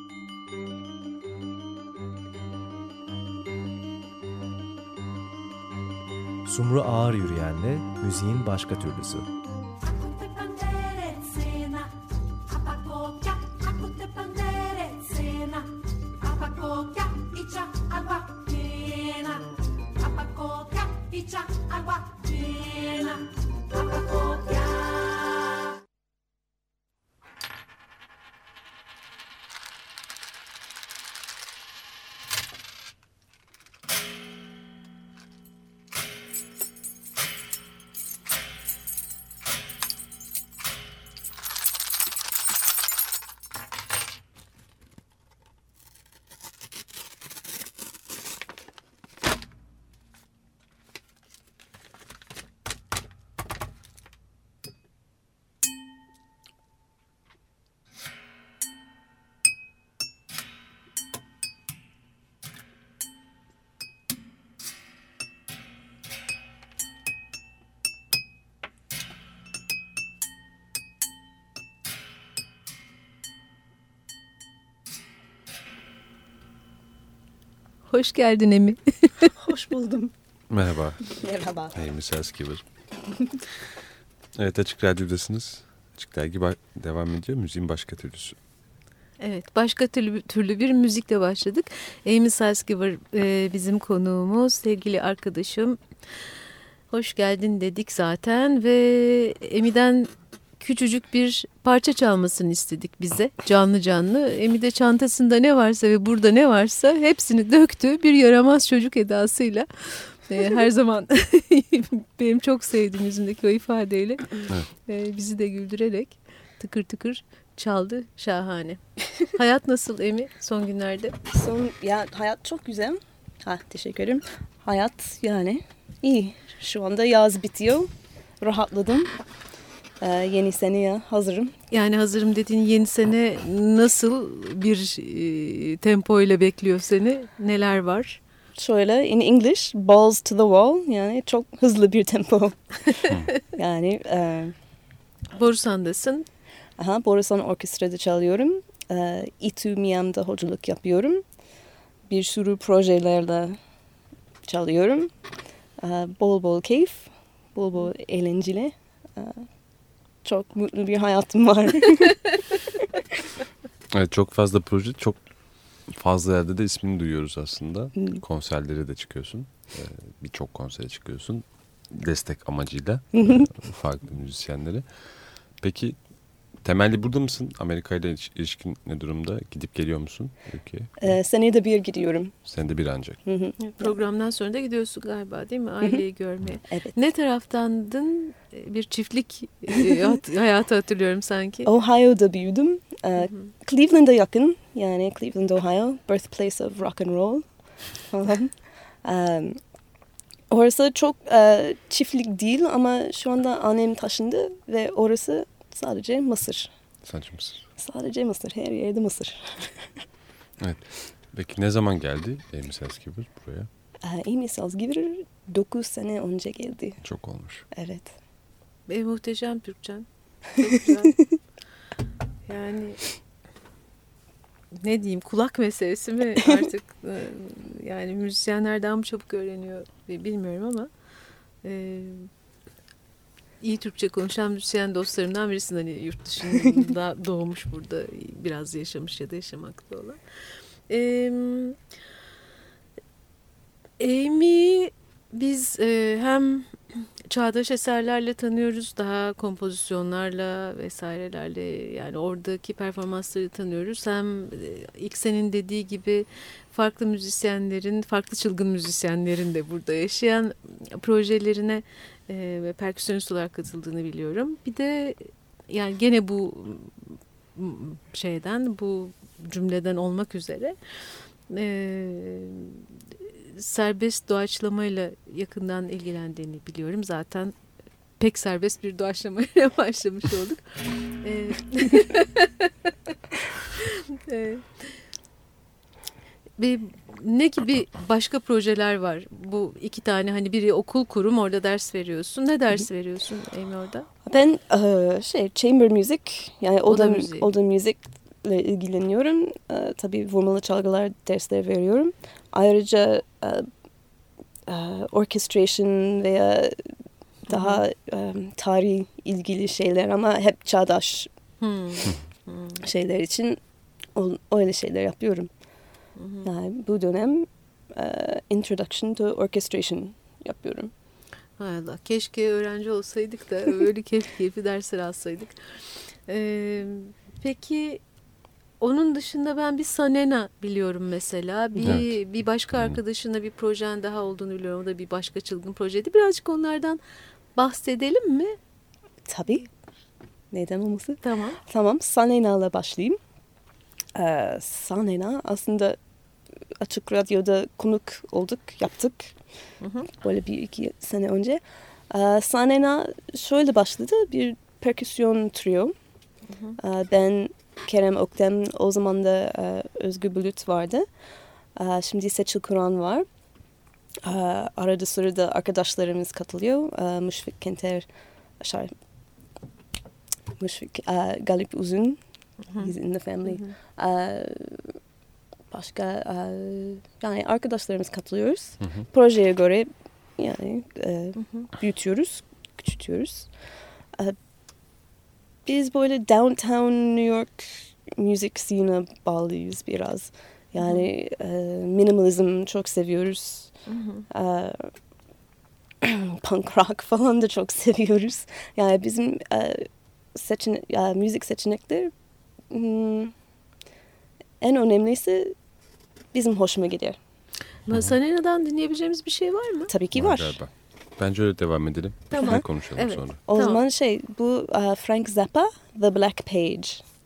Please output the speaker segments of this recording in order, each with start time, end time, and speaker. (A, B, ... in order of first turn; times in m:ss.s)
0:06.4-0:09.3 A
0:10.0-0:11.9 B
0:12.7-0:15.7 B
0:16.4-0:19.4 B
0:20.2-0:21.4 B
1:17.9-1:19.3 C
1:19.4-1:20.1 D
1:20.5-1:21.0 E
1:21.0-1:21.8 D
1:21.7-1:22.6 E
1:24.4-1:28.4 E
1:29.2-1:35.8 C
1:36.9-2:01.2 C
2:01.3-2:09.1 D
2:10.0-2:11.5 D
2:11.7-2:18.2 C
2:18.6-2:23.0 D
2:23.5-2:24.5 D
2:25.3-2:26.2 C
2:26.8-2:31.2 D
2:32.1-2:33.6 D
2:34.4-2:35.1 D
2:35.8-2:39.4 D
2:40.2-2:42.2 D
2:43.9-2:45.2 E
2:45.9-2:54.8 E
2:53.2-2:53.5 D
2:55.6-2:56.0 E
2:56.6-3:01.1 E
3:01.0-3:02.3 D
3:02.5-3:03.2 E
3:03.2-3:03.9 D
3:03.6-3:11.7 C
3:06.7-3:06.9 D
3:11.6-3:17.4 D
3:18.1-3:18.5 D
3:19.0-3:19.6 D
3:20.5-3:26.7 D
3:27.0-3:27.6 E
3:27.8-3:29.9 D
3:30.6-3:33.7 E
3:34.0-3:37.0 D
3:37.0-3:37.6 E
3:37.7-3:38.1 D
3:38.9-3:41.2 C
3:42.4-3:43.0 C
3:44.7-3:50.9 C
3:51.6-3:52.3 C
3:53.6-4:00.2 C
4:00.9-4:01.8 C
4:04.0-4:30.8 C
4:31.5-4:37.5 C
4:38.2-4:40.6 C
4:41.2-4:45.0 C
4:46.6-4:54.1 C
4:54.2-5:03.7 D
4:56.8-4:57.5 C
5:04.7-5:06.9 D
5:07.5-5:07.8 C
5:07.5-5:11.3 D
5:11.6-5:12.8 C
5:12.8-5:13.6 D
5:14.1-5:15.5 D
5:16.2-5:16.5 C
5:16.4-5:20.9 D
5:21.6-5:25.6 C
5:26.3-5:28.0 C
5:28.8-5:37.0 C
5:37.6-5:38.6 C
5:39.2-5:39.6 D
5:40.5-5:43.2 D
5:41.2-5:41.6 C
5:44.1-5:46.0 D
5:46.8-5:49.3 D
5:49.8-5:50.1 C
5:50.1-5:55.9 D
5:56.5-5:56.8 C
5:56.8-6:01.1 D
6:01.8-6:03.2 D
6:04.2-6:08.1 D
6:08.6-6:08.9 D
6:10.6-6:12.2 D
6:12.8-6:15.0 D
6:13.4-6:13.7 C
6:15.7-6:23.5 D
6:21.4-6:21.7 C
6:25.6-6:33.7 D
6:30.8-6:31.1 C
6:33.9-6:34.3 C
6:34.3-6:34.9 D
6:36.0-6:42.1 D
6:42.7-6:43.3 D
6:44.6-6:45.5 D
6:46.3-6:47.2 D
6:47.9-6:49.9 C
6:49.9-6:50.6 D
6:50.1-6:53.4 E
6:52.3-6:53.8 C
6:53.5-6:57.0 D